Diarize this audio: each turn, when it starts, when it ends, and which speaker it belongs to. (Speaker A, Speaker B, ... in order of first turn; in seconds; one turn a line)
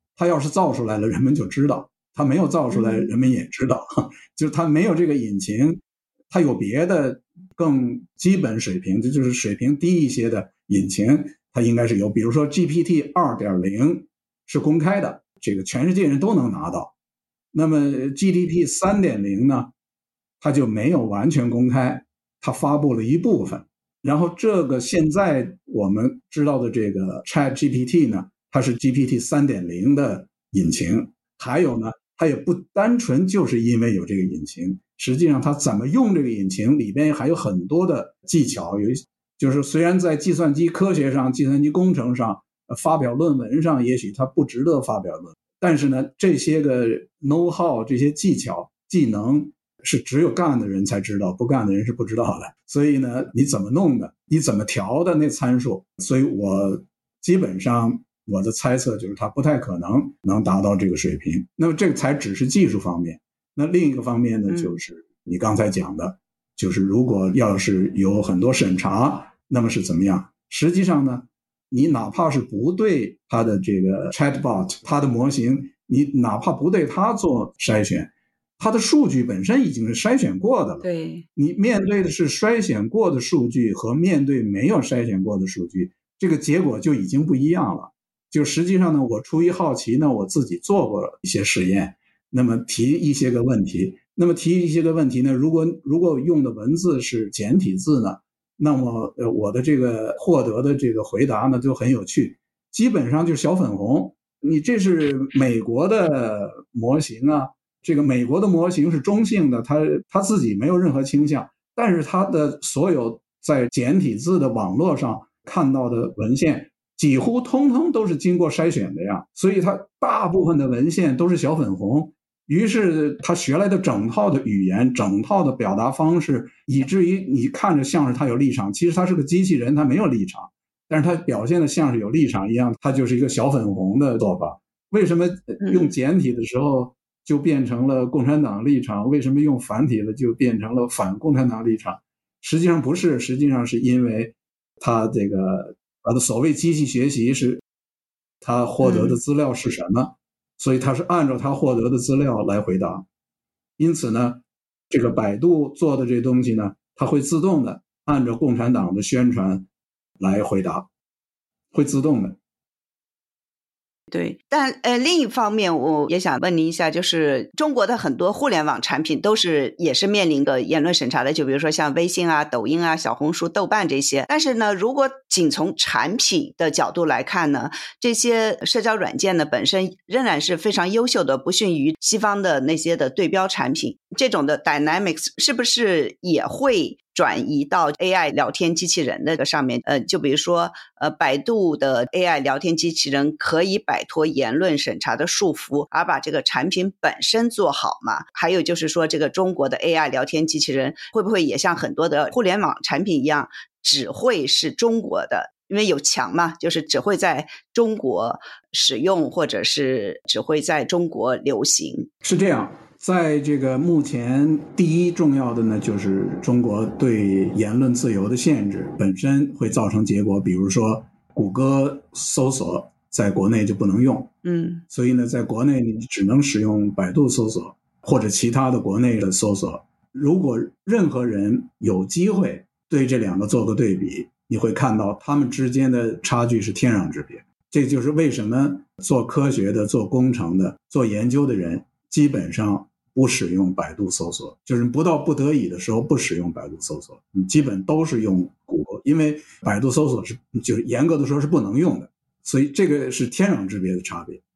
Speaker A: 0.2-16.9
Speaker B: 2.7-3.1
Speaker A: 17.5-19.7
Speaker A: 20.4-147.6
Speaker B: 64.5-64.8
Speaker B: 80.8-81.2
Speaker A: 148.4-153.1
Speaker B: 148.8-149.2
Speaker A: 153.8-159.7
Speaker A: 160.2-160.9
Speaker A: 161.7-162.4
Speaker B: 164.1-212.1
Speaker A: 212.2-224.3
Speaker B: 224.4-224.8
Speaker A: 224.9-254.4